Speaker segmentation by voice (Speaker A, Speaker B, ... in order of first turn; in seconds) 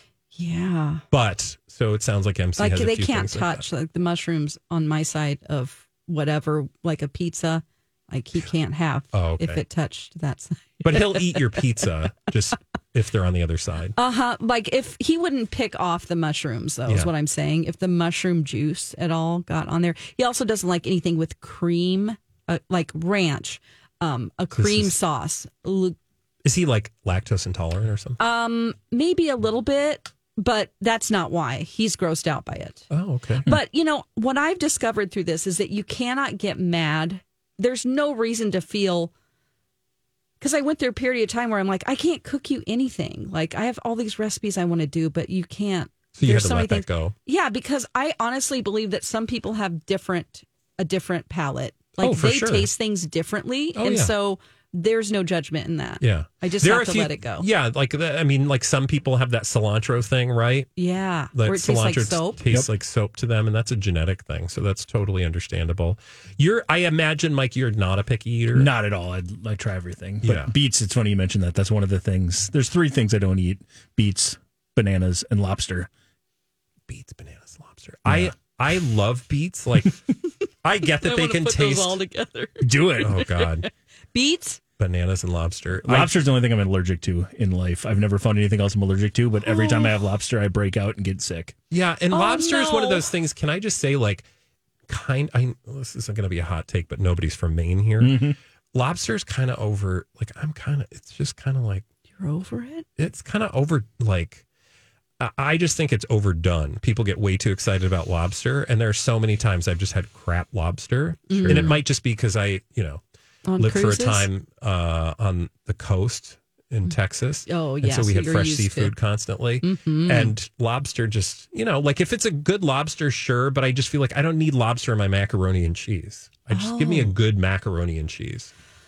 Speaker A: 0.3-1.0, 2.6-11.6, 13.9-26.0, 28.2-32.9, 33.4-39.1, 40.4-57.5, 60.8-62.4, 80.8-84.6, 89.4-90.0, 92.1-93.0, 102.2-102.8, 111.3-111.8, 113.5-114.3, 117.5-118.9, 119.6-120.3, 126.5-127.1
Speaker B: 1.1-3.6, 9.1-9.6, 10.8-13.9, 24.6-24.9, 26.4-28.2, 32.9-33.5, 46.1-47.1, 52.0-52.7, 53.8-54.1, 56.0-60.7, 61.3-68.7, 70.2-70.5, 76.9-80.0, 80.6-82.0, 83.0-83.7, 84.8-86.1, 91.7-94.3, 94.9-101.8, 103.0-104.4, 105.2-113.0, 113.6-128.5
Speaker C: 68.5-75.9, 78.1-78.3, 82.6-83.2, 85.8-91.5, 98.0-98.4